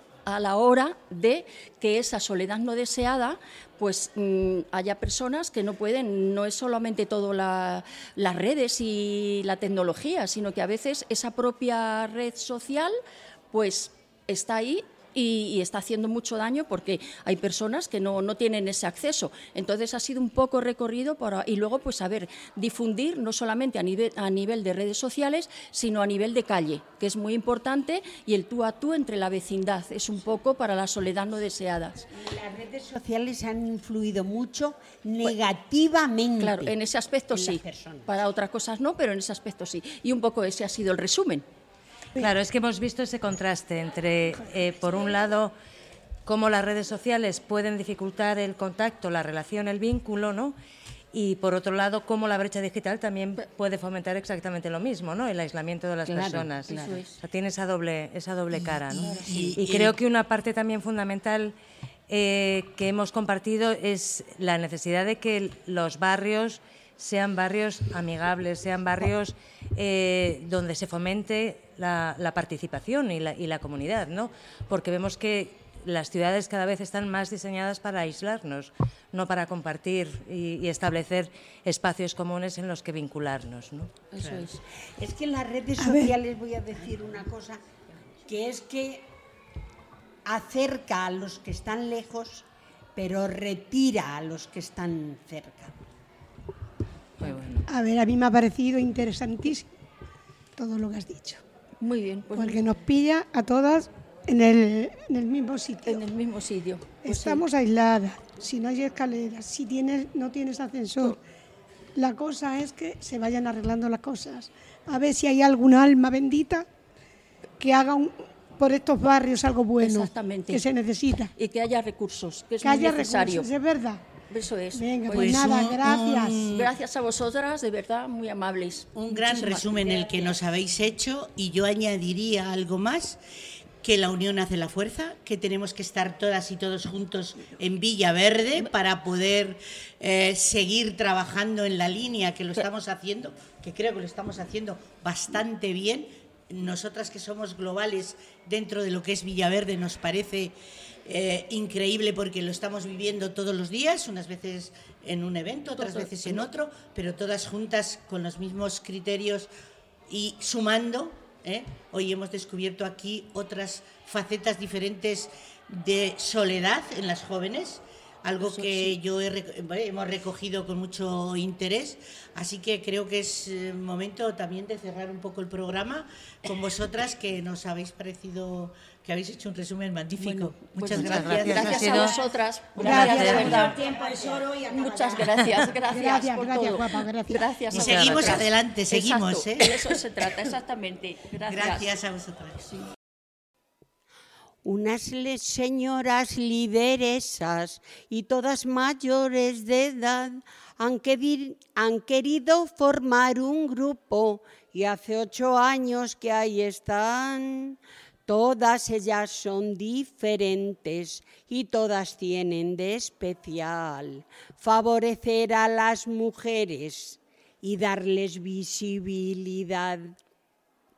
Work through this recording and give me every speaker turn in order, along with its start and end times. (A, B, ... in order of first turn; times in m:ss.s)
0:00.2-0:13.0 A
0:13.5-0:32.1 A
0:32.2-0:36.7 B
0:36.4-0:41.4 A
0:37.3-0:38.1 B
0:42.2-0:45.5 C
0:46.2-0:50.6 C
0:51.1-1:01.6 C
0:56.0-0:57.1 A
0:58.8-1:00.0 D
1:02.1-1:23.9 C
1:24.2-1:24.6 A
1:24.2-1:24.5 D
1:24.8-1:27.6 B
1:25.8-1:26.1 E
1:28.2-1:29.1 B
1:30.2-1:32.4 B
1:33.0-1:35.7 B
1:37.2-1:37.6 C
1:37.6-1:39.7 E
1:40.6-1:41.4 E
1:41.8-1:42.6 A
1:42.3-1:46.1 E
1:45.8-1:47.4 A
1:47.0-1:51.2 E
1:52.0-1:56.7 E
1:57.6-2:01.3 E
1:59.8-2:00.6 A
2:01.4-2:03.5 A
2:02.6-2:04.0 E
2:04.3-2:05.5 A
2:04.7-2:06.5 E
2:05.1-2:06.7 D
2:06.5-2:10.3 A
2:08.9-2:13.2 D
2:13.8-2:30.5 D
2:31.0-2:39.5 D
2:40.1-3:01.9 D
3:00.2-3:11.8 A
3:00.9-3:02.2 C
3:02.7-3:04.0 E
3:02.8-3:03.5 C
3:05.8-3:08.0 E
3:07.7-3:09.8 D
3:11.4-3:12.7 D
3:14.6-3:40.1 B